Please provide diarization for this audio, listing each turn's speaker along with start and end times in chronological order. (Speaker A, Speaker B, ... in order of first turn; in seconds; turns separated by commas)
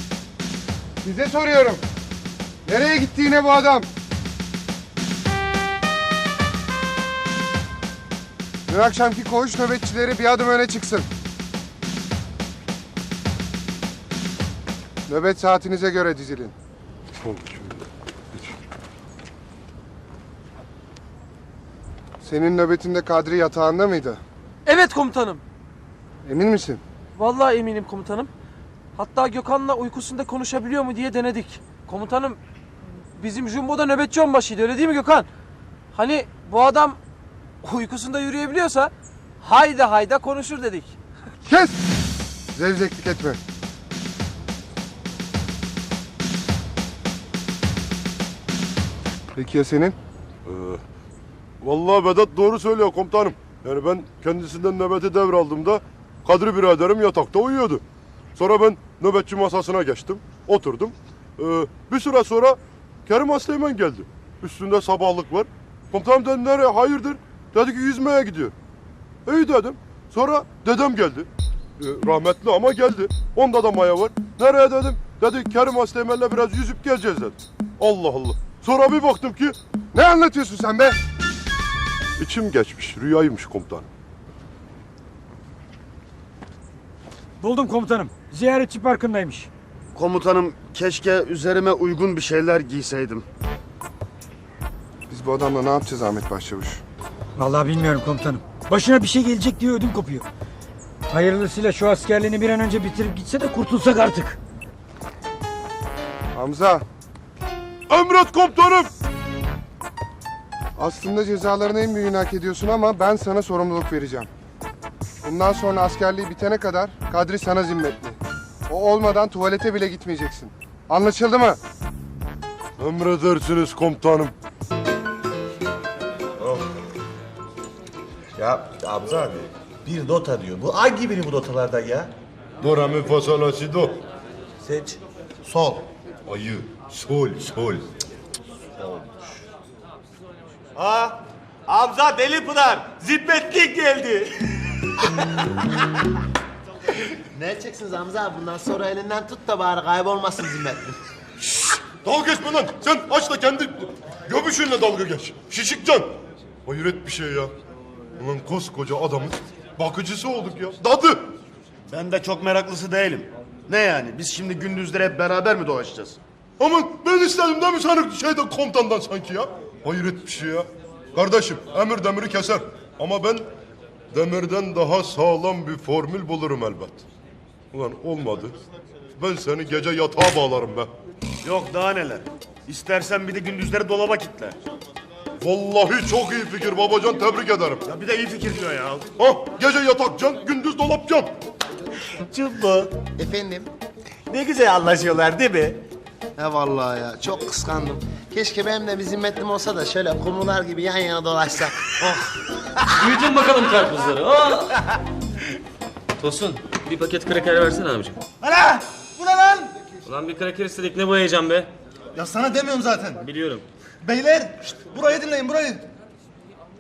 Speaker A: 1.0-1.8, Speaker A: 2.7-3.9, Speaker A: 8.7-11.1, Speaker A: 15.1-16.5, Speaker B: 17.2-17.9, Speaker A: 22.2-24.2, Speaker C: 24.7-25.4, Speaker A: 26.2-26.8, Speaker C: 27.2-28.3, Speaker C: 29.0-32.4, Speaker C: 33.2-35.3, Speaker C: 35.9-37.0, Speaker C: 37.6-40.9, Speaker A: 41.5-41.8, Speaker A: 42.5-43.4, Speaker A: 49.4-50.0, Speaker B: 50.5-50.8, Speaker B: 51.6-57.8, Speaker B: 58.4-68.5, Speaker B: 69.3-71.3, Speaker B: 71.8-79.6, Speaker A: 79.9-81.0, Speaker B: 82.2-83.9, Speaker D: 87.4-89.5, Speaker E: 90.0-93.2, Speaker A: 95.1-96.8, Speaker D: 97.4-100.2, Speaker D: 101.1-104.4, Speaker A: 106.3-106.8, Speaker B: 107.9-108.9, Speaker A: 110.8-114.3, Speaker A: 115.2-121.6, Speaker B: 122.8-124.3, Speaker F: 128.4-132.1, Speaker B: 132.6-134.0, Speaker F: 134.7-135.8, Speaker B: 136.3-137.9, Speaker F: 138.8-139.1, Speaker E: 140.8-141.1, Speaker F: 141.7-143.9, Speaker E: 141.9-144.2, Speaker G: 147.3-151.0, Speaker B: 152.0-156.1, Speaker B: 156.7-157.5, Speaker B: 158.2-161.3, Speaker E: 161.9-166.2, Speaker B: 166.6-173.5, Speaker B: 174.1-177.0, Speaker B: 177.7-178.6, Speaker B: 179.2-180.9, Speaker E: 181.4-184.6, Speaker B: 185.4-187.8, Speaker E: 187.9-189.1, Speaker B: 189.2-191.3, Speaker E: 192.3-192.9, Speaker G: 193.0-193.7, Speaker E: 194.4-195.7, Speaker G: 196.4-202.2, Speaker H: 202.9-204.8, Speaker H: 206.2-208.2, Speaker I: 208.4-209.7, Speaker H: 210.1-211.7, Speaker I: 212.2-213.2, Speaker H: 213.2-213.7, Speaker I: 214.0-215.8